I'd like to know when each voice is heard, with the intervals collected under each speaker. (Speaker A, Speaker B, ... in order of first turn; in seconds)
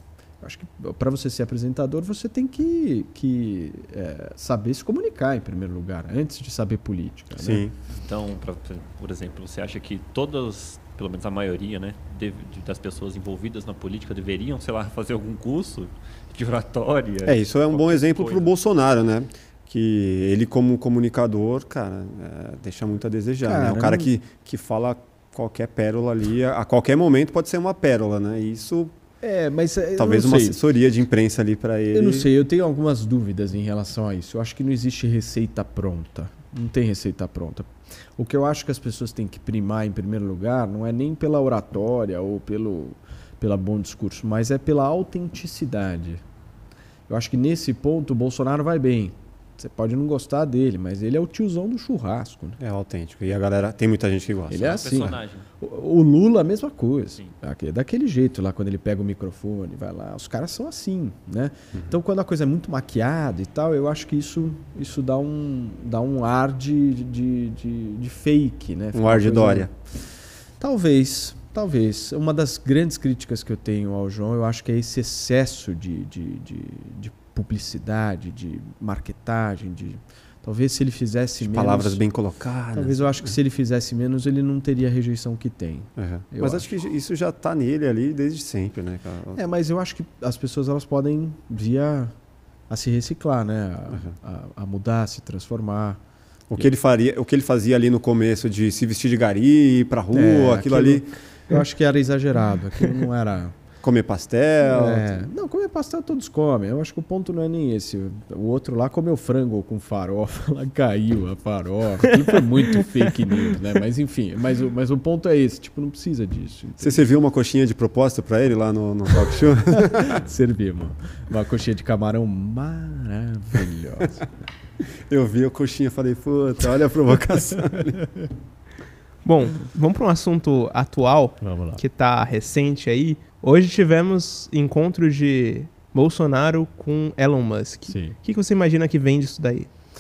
Speaker A: 0.4-7.7, 23.4-24.1, 29.2-30.6, 31.9-46.2, 47.1-52.6, 54.5-70.0, 70.6-82.0, 82.7-86.7, 89.3-92.1, 92.7-96.0, 100.1-103.6, 104.7-117.0, 119.7-124.3, 131.4-131.8, 137.9-138.2
Speaker B: 7.3-7.8, 17.2-28.9, 30.0-32.3, 52.6-55.1, 68.9-69.7, 81.4-83.3, 86.0-89.4, 96.5-101.1, 103.8-105.2, 116.8-120.2, 124.9-128.1
Speaker C: 7.9-18.5, 54.6-55.5
Speaker D: 129.2-139.7